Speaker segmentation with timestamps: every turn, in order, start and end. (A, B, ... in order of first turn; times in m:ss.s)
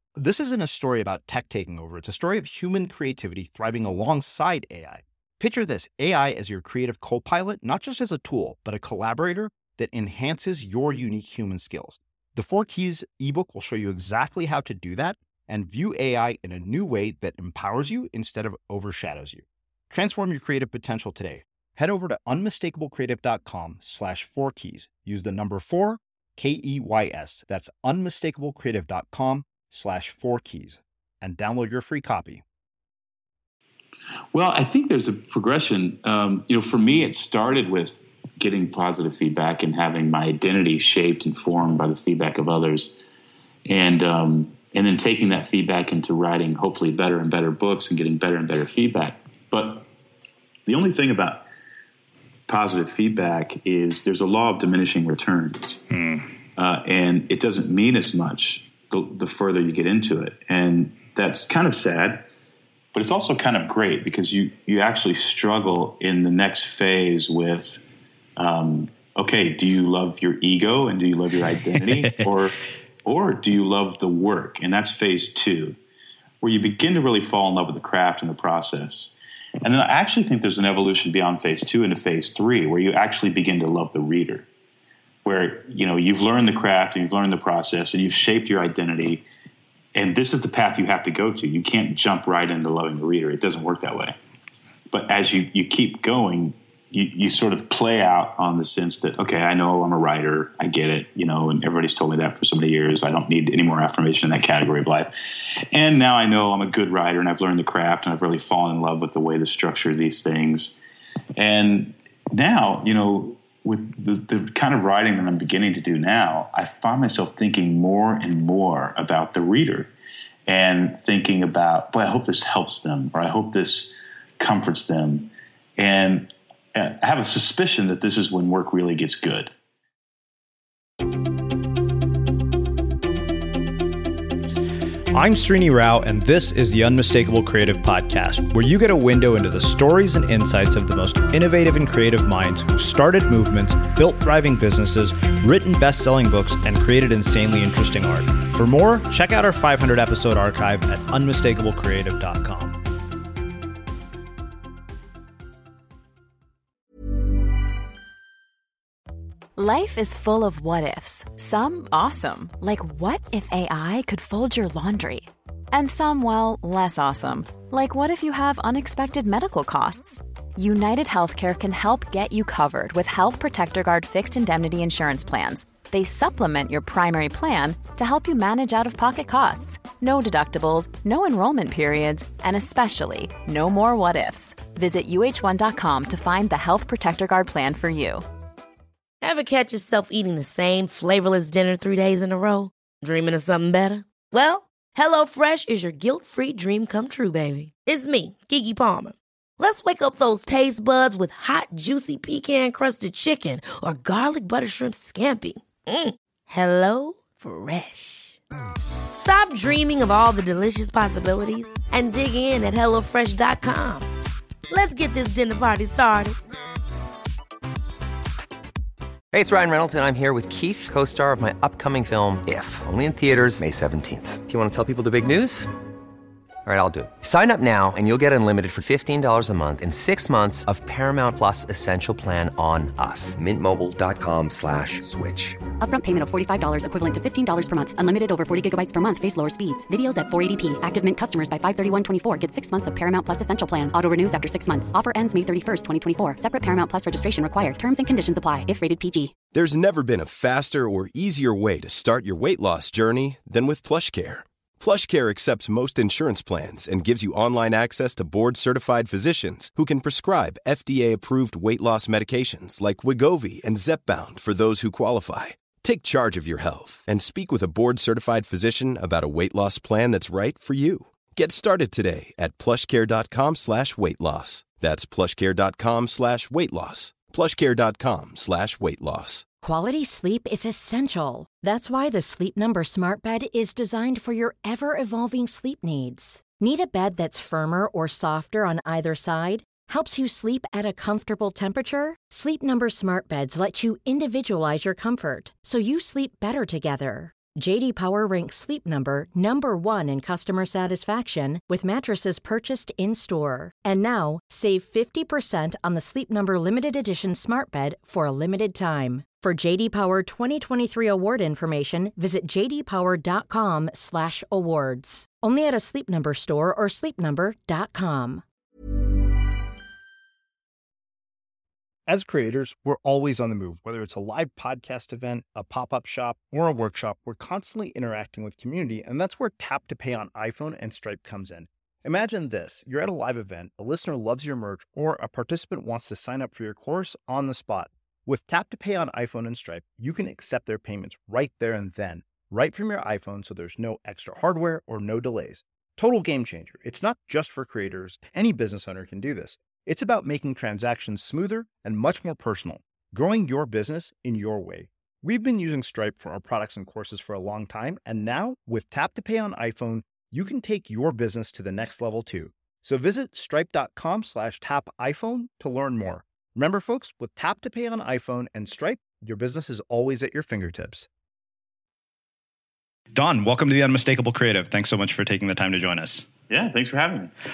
0:00.2-0:32.4 A
0:34.3-0:43.0 B
0:43.7-0:49.9 B
0:50.7-0:51.4 B
0:52.5-0:55.8 B
0:55.9-0:56.3 C
0:56.6-1:02.2 B
1:02.9-1:07.8 B
1:08.4-1:15.8 B
1:11.9-1:12.3 C
1:16.4-1:24.5 B
1:25.2-1:29.2 B
1:30.0-1:34.2 B
1:34.9-1:45.1 B
1:45.7-1:50.8 B
1:51.4-1:59.9 B
2:00.5-2:09.5 B
2:15.2-2:18.0 A
2:17.4-2:18.5 C
2:18.6-2:32.8 A
2:39.6-3:08.2 D
3:09.2-3:28.4 E
3:29.2-3:34.1 E
3:34.7-3:36.4 E
3:39.3-3:45.7 F
3:46.6-3:55.6 F
3:55.8-4:09.3 G
4:09.5-4:39.5 H
4:39.6-5:18.4 I
5:22.1-6:11.1 A
6:13.1-6:16.3 C
6:16.5-6:17.3 B